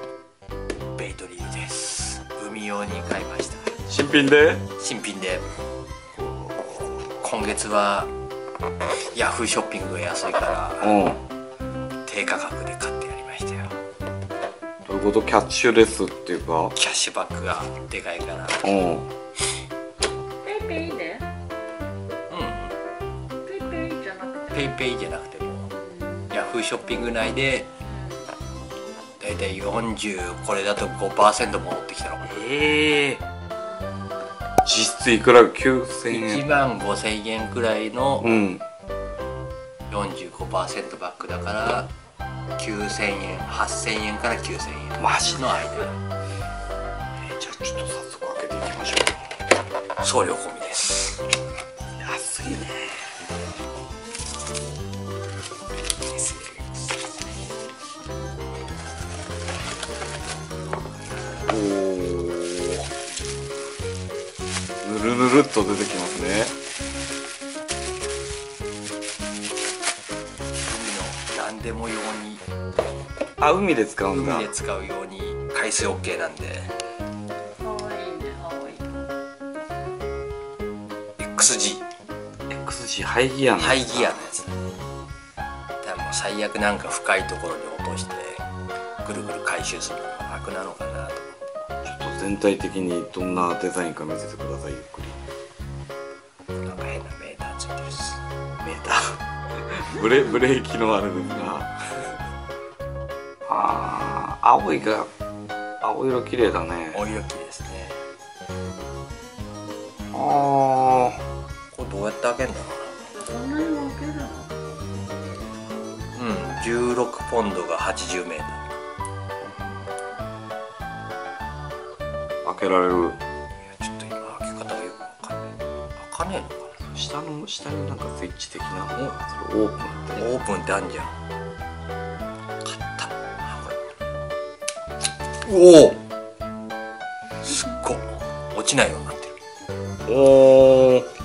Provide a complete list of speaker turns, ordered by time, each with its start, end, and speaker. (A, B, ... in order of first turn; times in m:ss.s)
0:01.0-0:03.8 A
0:03.9-0:04.6 B
0:04.8-0:05.4 A
0:06.2-0:07.1 B
0:07.0-0:08.1 A
0:09.1-0:11.0 A
0:10.8-0:11.2 B
0:12.0-0:13.8 A
0:14.8-0:16.7 B
0:16.7-0:18.8 A
0:18.6-0:19.1 B
0:20.4-0:21.3 C
0:22.3-0:22.7 A
0:23.4-0:24.7 C
0:24.5-0:25.7 A
0:25.7-0:26.3 C
0:26.3-0:27.7 A
0:27.8-0:28.3 C
0:29.2-0:32.4 A
0:32.2-0:33.2 B
0:34.6-0:36.4 B
0:36.1-0:38.4 A
0:38.2-0:38.6 B
0:39.9-0:41.9 A
0:42.6-0:45.9 A
0:45.0-0:45.6 B
0:47.2-0:49.3 B
0:50.0-0:51.3 A
0:52.0-0:53.2 B
0:56.0-0:57.2 A
1:01.4-1:02.9 B
1:04.8-1:06.5 B
1:10.6-1:12.4 A
1:13.4-1:14.5 B
1:14.1-1:16.7 A
1:17.6-1:19.1 C
1:21.2-1:21.8 A
1:22.5-1:24.3 B
1:23.6-1:24.6 A
1:25.8-1:28.4 A
1:29.0-1:31.3 A
1:31.8-1:35.2 B
1:36.6-1:38.2 A
1:38.6-1:41.7 B
1:43.4-1:45.1 B
1:45.8-1:47.0 B
1:46.9-1:48.0 A
1:50.1-1:51.2 B
1:51.7-1:53.0 A
1:53.1-1:56.1 C
1:56.1-1:58.6 A
1:59.4-1:59.8 B
2:02.4-2:03.2 B
2:03.7-2:06.8 A
2:06.8-2:10.4 B
2:10.1-2:11.1 A
2:12.6-2:13.8 A
2:15.4-2:16.0 A
2:17.4-2:19.3 A
2:20.1-2:21.1 B